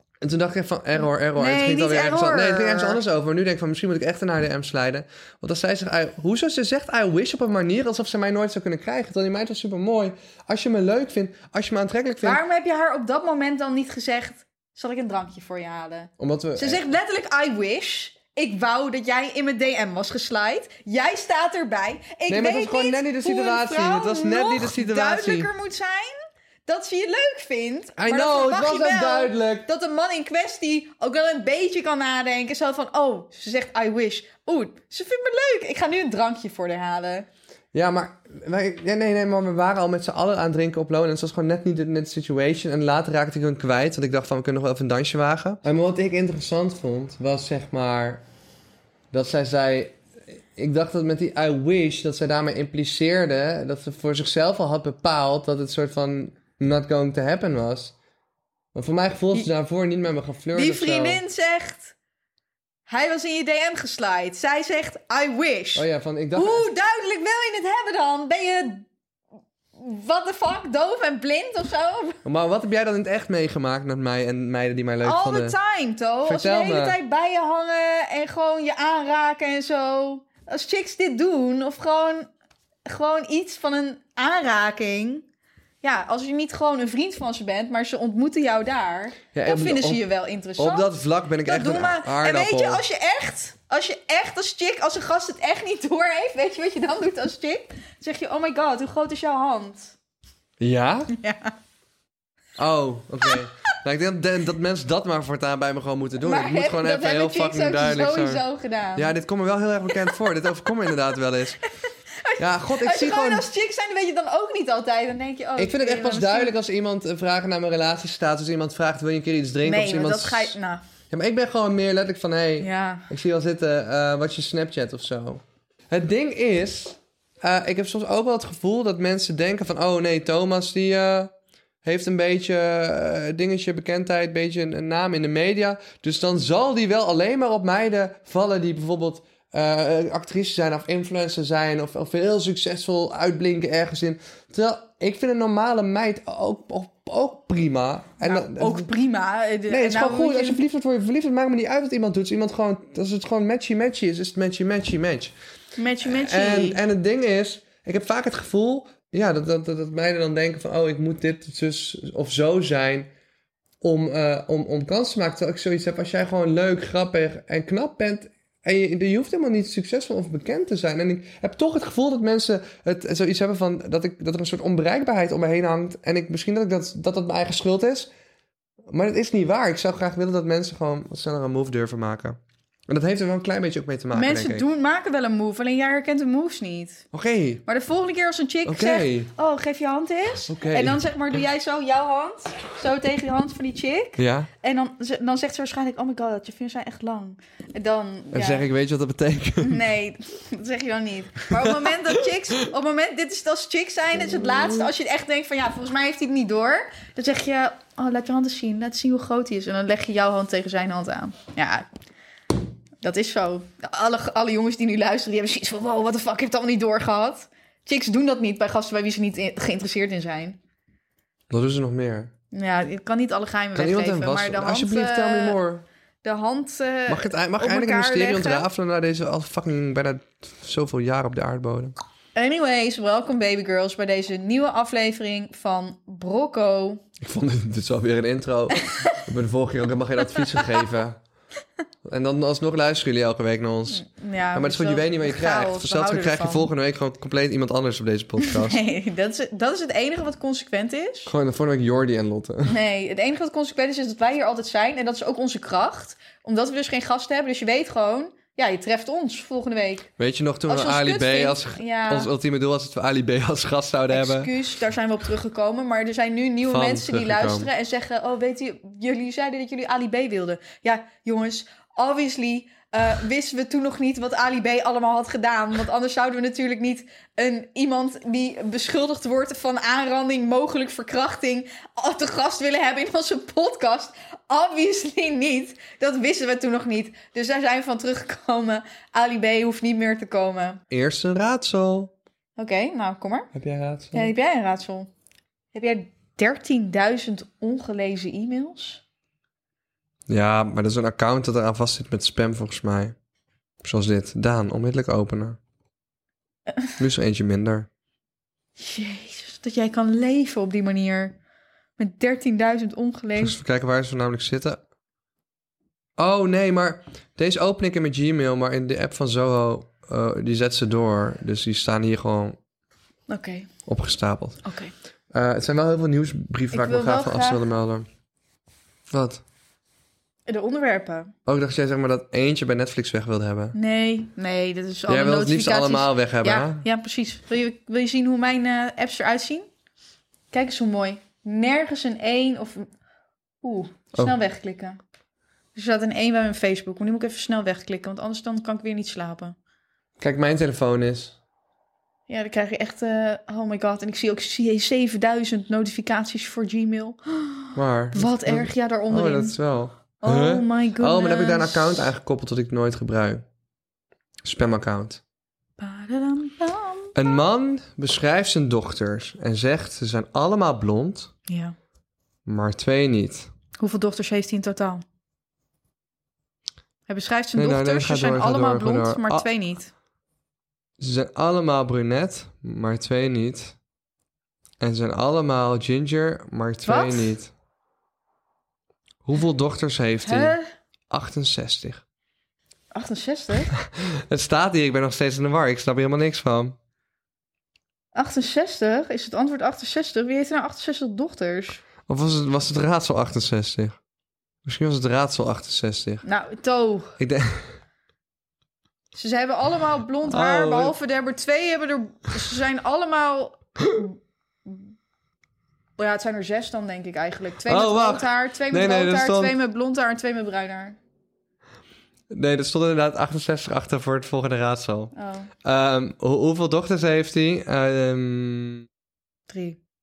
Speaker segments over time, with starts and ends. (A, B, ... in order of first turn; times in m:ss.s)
0:00.2-0:12.4 A
0:01.4-0:03.0 B
0:12.2-0:26.2 B
0:16.2-0:16.8 A
0:22.3-0:25.5 A
0:26.7-0:37.3 B
0:28.0-0:29.7 A
0:37.7-0:48.2 A
0:49.1-0:50.0 A
0:50.6-0:58.0 A
0:58.7-1:01.2 A
1:00.5-1:01.9 B
1:02.9-1:08.9 B
1:05.8-1:06.6 A
1:09.8-1:12.2 B
1:12.2-1:15.6 A
1:15.0-1:22.3 B
1:16.2-1:17.0 A
1:22.9-1:25.2 B
1:25.8-1:30.9 B
1:29.3-1:30.1 A
1:30.6-1:32.8 A
1:31.4-1:40.0 B
1:40.6-1:41.1 A
1:41.1-1:41.5 B
1:42.6-1:48.4 A
1:46.2-1:49.1 B
1:49.0-1:51.6 A
1:52.2-1:56.5 B
1:52.4-1:53.5 A
1:55.6-2:00.5 A
1:59.6-2:00.8 B
2:01.1-2:11.3 A
2:02.6-2:03.1 B
2:11.8-2:28.9 A
2:28.2-2:30.6 B
2:29.7-2:35.3 A
2:35.8-2:36.8 B
2:36.0-2:43.1 A
2:43.8-2:58.1 A
2:58.9-3:04.6 A
3:04.1-3:07.0 B
3:07.1-3:07.6 A
3:07.7-3:18.6 B
3:08.7-3:09.3 A
3:10.5-3:11.0 A
3:14.2-3:14.5 A
3:18.3-3:19.8 A
3:19.6-3:31.9 B
3:21.6-3:22.2 A
3:24.6-3:24.9 A
3:33.0-3:40.6 B
3:41.5-3:42.3 A
3:42.5-3:45.6 B
3:43.8-3:45.8 A
3:46.2-3:48.7 B
3:47.1-3:52.0 A
3:52.4-3:57.0 B
3:57.2-4:01.2 A
3:58.9-3:59.1 B
4:00.3-4:00.7 B
4:02.0-4:08.8 A
4:03.9-4:06.7 B
4:08.4-4:11.3 B
4:11.3-4:12.8 A
4:12.7-4:20.1 B
4:20.2-4:24.5 A
4:20.7-4:22.3 B
4:24.1-4:50.8 B
4:26.7-4:27.7 A
4:50.9-4:52.1 A
4:52.6-4:53.5 B
4:53.5-4:54.3 A
4:54.1-4:55.1 B
4:55.7-4:59.0 B
5:00.3-5:03.2 A
5:03.8-5:05.6 A
5:07.0-5:07.9 A
5:08.8-5:11.4 B
5:12.0-5:13.6 B
5:13.4-5:14.8 A
5:16.2-5:22.6 A
5:23.3-5:23.7 B
5:23.9-5:24.6 A
5:24.6-5:24.9 B
5:25.3-5:28.1 A
5:26.7-5:27.6 B
5:29.1-5:29.4 A
5:30.5-5:31.3 B
5:31.5-5:33.8 A
5:33.7-5:39.7 B
5:35.1-5:36.8 A
5:40.5-5:42.9 B
5:43.6-5:45.0 B
5:45.8-5:49.6 B
5:50.2-5:51.4 A
5:52.3-5:59.6 B
5:57.8-6:03.4 A
6:00.2-6:02.1 B
6:04.4-6:05.2 A
6:05.8-6:07.3 B
6:07.2-6:11.3 A
6:11.5-6:11.8 B
6:12.5-6:13.5 A
6:13.8-6:15.0 B
6:17.1-6:19.9 B
6:17.6-6:19.5 A
6:21.0-6:23.8 A
6:24.8-6:27.5 A
6:26.9-6:27.3 B
6:29.2-6:30.6 A
6:30.2-6:30.7 B
6:31.1-6:32.0 A
6:32.9-6:33.7 B
6:33.8-6:36.8 A
6:38.1-6:41.8 B
6:42.1-6:44.0 A
6:44.6-6:46.2 A
6:46.2-6:47.2 B
6:47.2-6:47.7 A
6:49.2-6:54.9 B
6:50.3-6:51.0 A
6:56.0-7:01.0 B
6:57.7-6:59.6 A
7:02.3-7:05.1 A
7:05.2-7:05.5 B
7:05.6-7:08.9 A
7:09.5-7:09.8 B